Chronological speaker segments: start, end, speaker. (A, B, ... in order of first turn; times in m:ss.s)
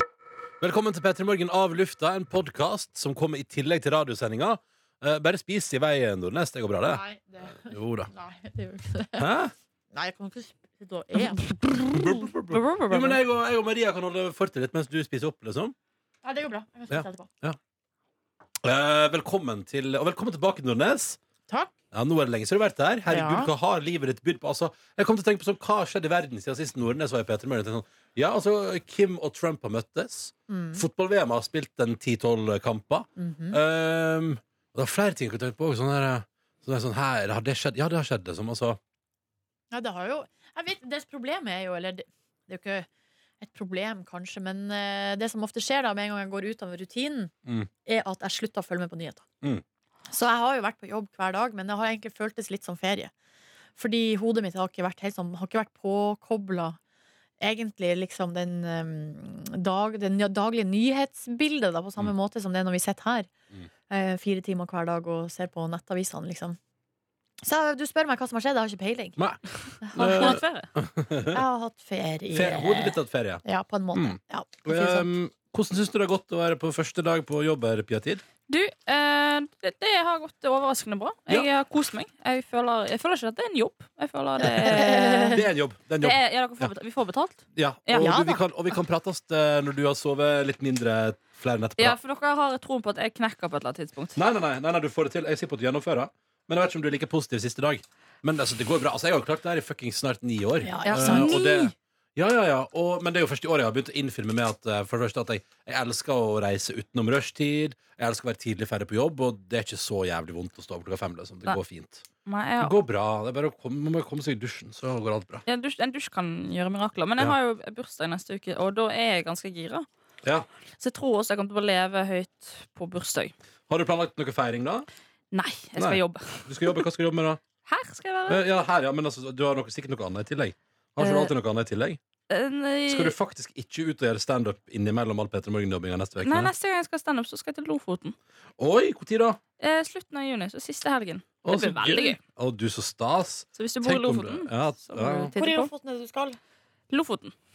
0:00.6-0:07.0 A
0:06.9-0:09.3 B
0:07.6-0:08.1 A
0:09.2-0:09.5 A
0:09.9-0:11.4 B
0:11.4-0:13.2 C
0:11.9-0:15.8 A
0:16.2-0:17.3 B
0:16.9-0:17.6 A
0:18.6-0:21.2 A
0:21.9-0:38.8 A
0:23.1-0:23.5 B
0:30.5-0:30.8 B
0:33.2-0:33.6 B
0:39.7-0:42.9 B
0:43.4-0:47.3 B
0:47.8-0:49.2 B
0:50.1-0:53.1 B
0:53.8-0:56.8 B
0:57.4-1:03.3 B
1:03.9-1:06.6 B
1:07.4-1:09.2 B
1:09.9-1:10.4 B
1:10.0-1:10.7 C
1:10.0-1:11.4 A
1:11.3-1:15.1 B
1:12.3-1:18.2 A
1:18.5-1:25.4 C
1:24.4-1:25.4 B
1:25.3-1:26.7 A
1:26.0-1:28.1 C
1:27.6-1:32.0 A
1:27.9-1:28.4 B
1:31.8-1:34.2 C
1:34.2-1:52.0 A
1:40.6-1:41.4 B
1:40.9-1:41.7 C
1:52.2-1:52.8 C
1:52.6-1:55.4 A
1:55.5-1:59.9 C
2:00.8-2:03.3 C
2:03.7-2:04.9 A
2:05.3-2:06.8 C
2:05.8-2:07.4 A
2:07.6-2:08.4 C
2:08.3-2:12.0 A
2:11.0-2:11.3 C
2:12.3-2:13.1 C
2:12.9-2:16.5 A
2:16.2-2:18.2 C
2:18.6-2:19.4 A
2:19.6-2:22.2 C
2:21.4-2:25.3 A
2:23.6-2:25.7 C
2:25.4-2:26.4 B
2:26.9-2:27.3 C